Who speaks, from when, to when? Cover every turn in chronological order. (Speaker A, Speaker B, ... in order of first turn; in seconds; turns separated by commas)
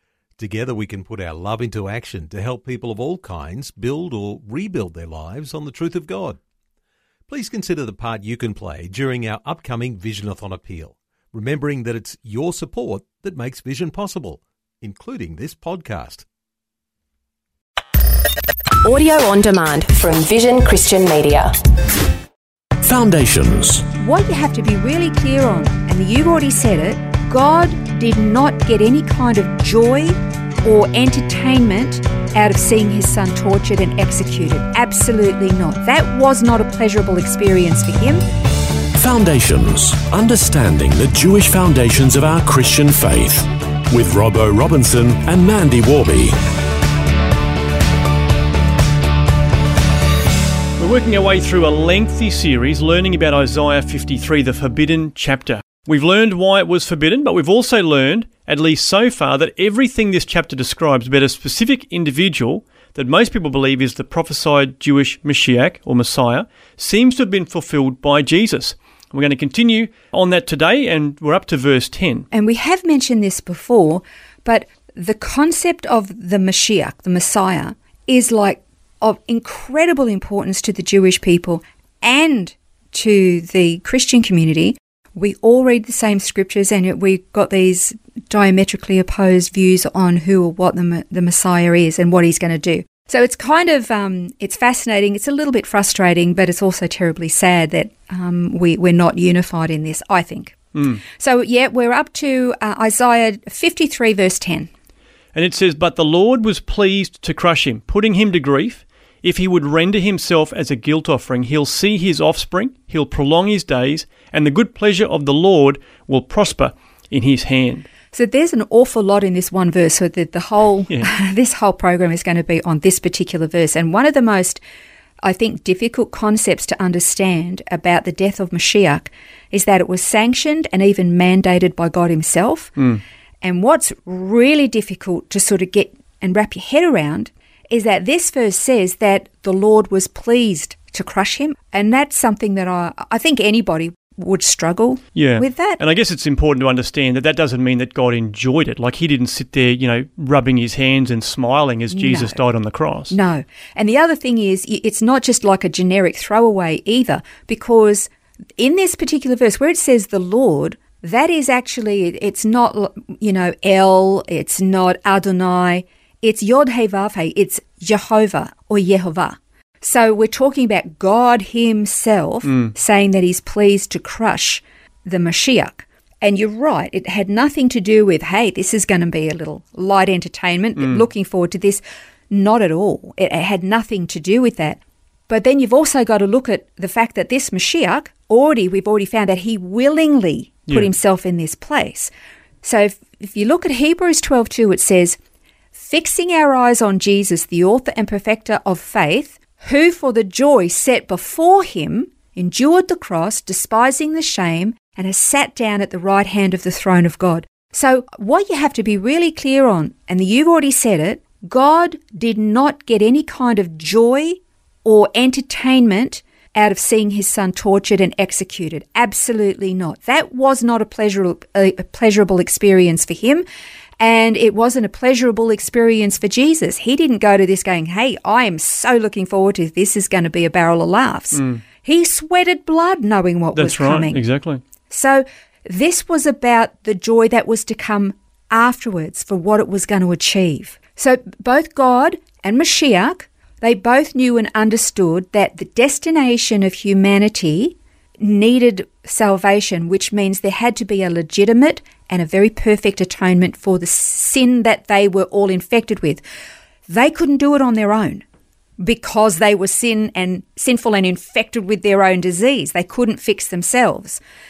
Speaker A: 0.4-6.4, Speaker A: 7.3-16.3, Speaker B: 18.8-21.5, Speaker C: 22.8-23.9, Speaker D: 24.0-38.2, Speaker C: 39.0-46.4, Speaker E: 50.8-72.3, Speaker D: 72.3-104.7, Speaker E: 100.8-101.0, Speaker E: 105.3-117.9, Speaker D: 118.1-124.6, Speaker D: 125.2-145.8, Speaker E: 145.2-153.1, Speaker D: 151.9-152.4, Speaker D: 153.1-192.1, Speaker E: 180.8-181.1, Speaker D: 192.6-195.2, Speaker D: 195.8-223.4, Speaker D: 224.0-234.2, Speaker E: 231.3-231.6, Speaker E: 233.6-234.6, Speaker D: 234.9-256.2, Speaker D: 256.9-258.2, Speaker D: 258.8-264.2